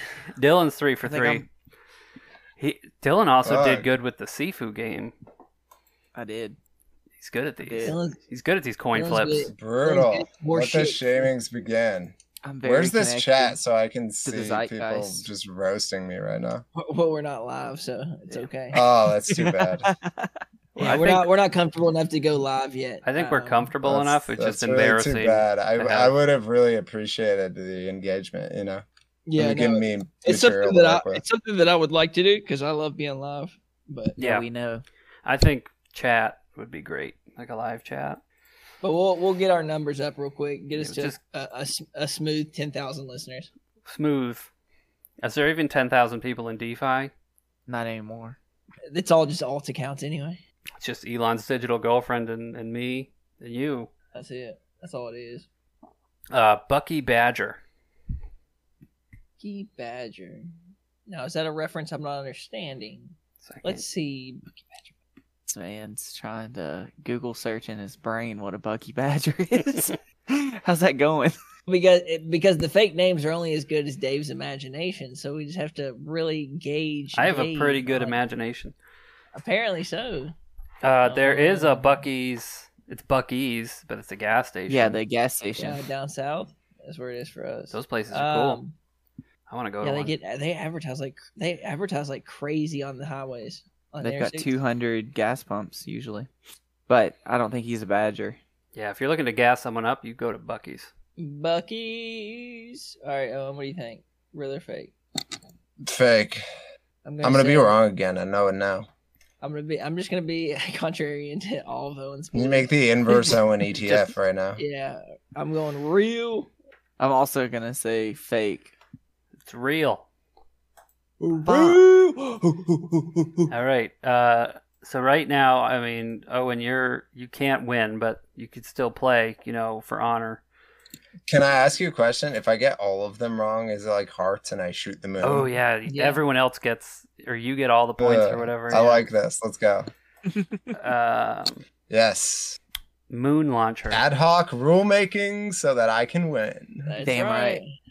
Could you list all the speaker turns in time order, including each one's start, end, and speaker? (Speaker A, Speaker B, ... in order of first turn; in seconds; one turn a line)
Speaker A: 0.3-1.5
Speaker B: 1.0-1.4
Speaker A: 2.6-5.1
Speaker C: 3.4-3.9
Speaker B: 6.1-6.6
Speaker A: 7.2-9.5
Speaker B: 7.6-8.0
Speaker D: 7.8-8.2
Speaker D: 8.9-11.3
Speaker C: 9.5-16.6
Speaker B: 12.4-13.6
Speaker B: 14.2-15.3
Speaker D: 16.8-18.8
Speaker C: 18.7-19.9
Speaker B: 18.8-20.4
Speaker A: 20.8-21.3
Speaker D: 20.8-23.7
Speaker A: 23.0-26.1
Speaker C: 23.8-28.8
Speaker D: 29.3-34.1
Speaker C: 29.4-31.2
Speaker B: 34.1-34.8
Speaker A: 34.2-34.5
Speaker A: 35.2-38.2
Speaker D: 38.8-43.5
Speaker A: 40.8-41.2
Speaker A: 43.8-44.5
Speaker A: 45.2-47.1
Speaker B: 47.7-48.4
Speaker D: 48.9-50.4
Speaker A: 50.8-53.9
Speaker D: 54.1-55.5
Speaker A: 56.3-57.6
Speaker D: 59.4-60.5
Speaker D: 61.0-64.9
Speaker A: 63.4-63.8
Speaker B: 65.5-71.3
Speaker D: 71.7-78.2
Speaker A: 77.1-78.7
Speaker D: 79.3-80.3
Speaker A: 80.8-85.0
Speaker D: 81.0-82.0
Speaker B: 84.7-85.8
Speaker D: 85.6-88.8
Speaker A: 87.7-88.6
Speaker A: 89.5-90.1
Speaker D: 89.8-94.5
Speaker B: 94.0-96.3
Speaker B: 96.9-98.4
Speaker A: 98.7-100.9
Speaker D: 101.2-104.9
Speaker C: 105.8-106.4
Speaker D: 107.0-107.8
Speaker C: 107.2-108.9
Speaker D: 109.4-113.3
Speaker C: 112.3-114.6
Speaker D: 114.6-116.5
Speaker B: 117.0-118.7
Speaker A: 119.4-120.1
Speaker C: 121.2-123.5
Speaker B: 121.4-121.8
Speaker A: 123.5-130.4
Speaker C: 131.3-135.5
Speaker A: 135.2-139.1
Speaker D: 135.9-136.2
Speaker C: 138.0-139.9
Speaker B: 140.3-140.7
Speaker A: 140.7-141.6
Speaker C: 141.9-142.6
Speaker A: 143.1-144.0
Speaker C: 143.9-147.0
Speaker D: 146.8-147.7
Speaker B: 147.0-147.6